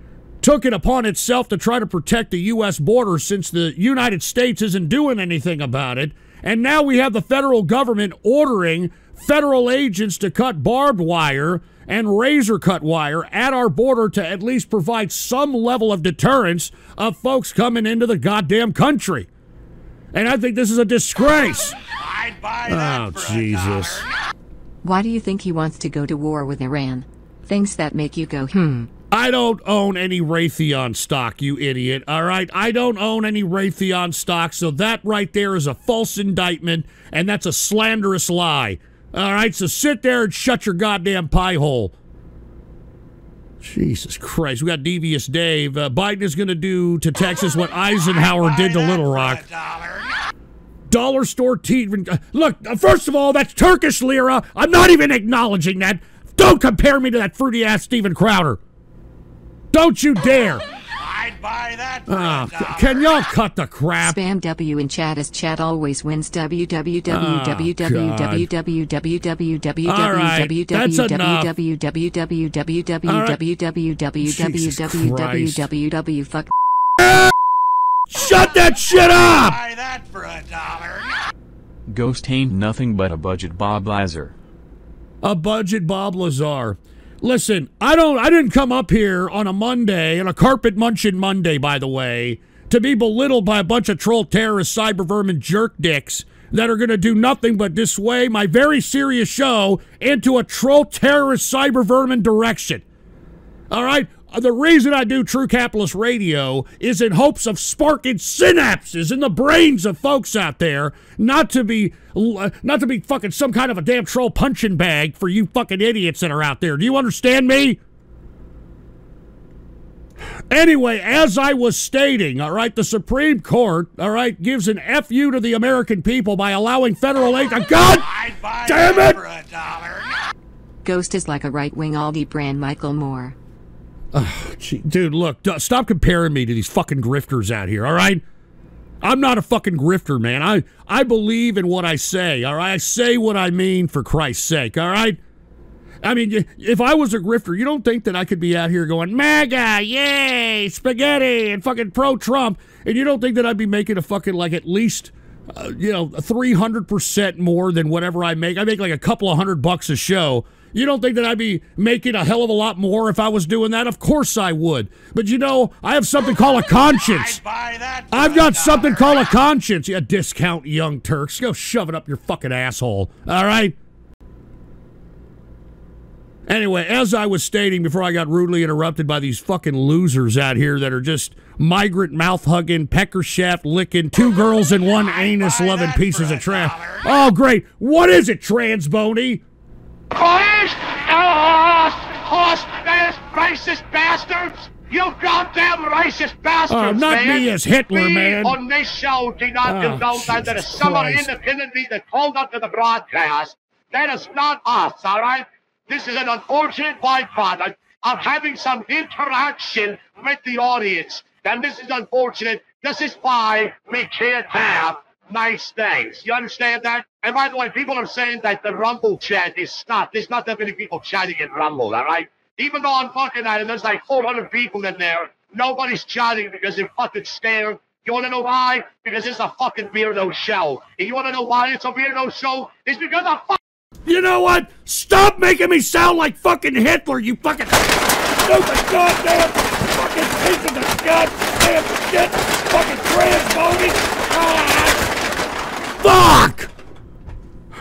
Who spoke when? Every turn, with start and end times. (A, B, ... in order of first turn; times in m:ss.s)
0:00.4-0:19.3 A
0:20.1-0:21.8 A
0:22.0-0:24.1 B
0:22.7-0:24.0 A
0:24.8-0:28.9 C
0:29.1-0:41.9 A
0:43.6-0:49.4 A
0:47.9-0:50.1 B
0:50.9-0:58.6 A
0:59.7-1:00.6 A
1:01.0-1:03.2 B
1:02.1-1:04.2 A
1:04.0-1:16.5 C
1:07.1-1:08.5 A
1:09.8-1:11.5 A
1:13.0-1:13.4 A
1:14.2-1:15.6 A
1:17.0-1:17.3 A
1:18.1-1:19.6 A
1:19.1-1:21.1 B
1:21.9-1:24.3 D
1:25.2-1:42.8 A
1:43.7-1:57.8 A
2:00.5-2:08.1 A
2:08.0-2:10.1 B
2:08.6-2:09.2 A
2:10.8-2:13.4 C
2:14.1-2:18.2 A
2:19.0-2:25.2 A
2:26.0-2:47.4 A
2:47.0-2:49.1 B
2:48.1-2:53.8 A
2:56.5-3:09.4 A
3:04.9-3:07.1 B
3:10.1-3:53.6 E
3:16.7-3:18.6 A
3:19.6-3:21.3 A
3:54.0-4:05.0 A
4:06.0-4:06.7 A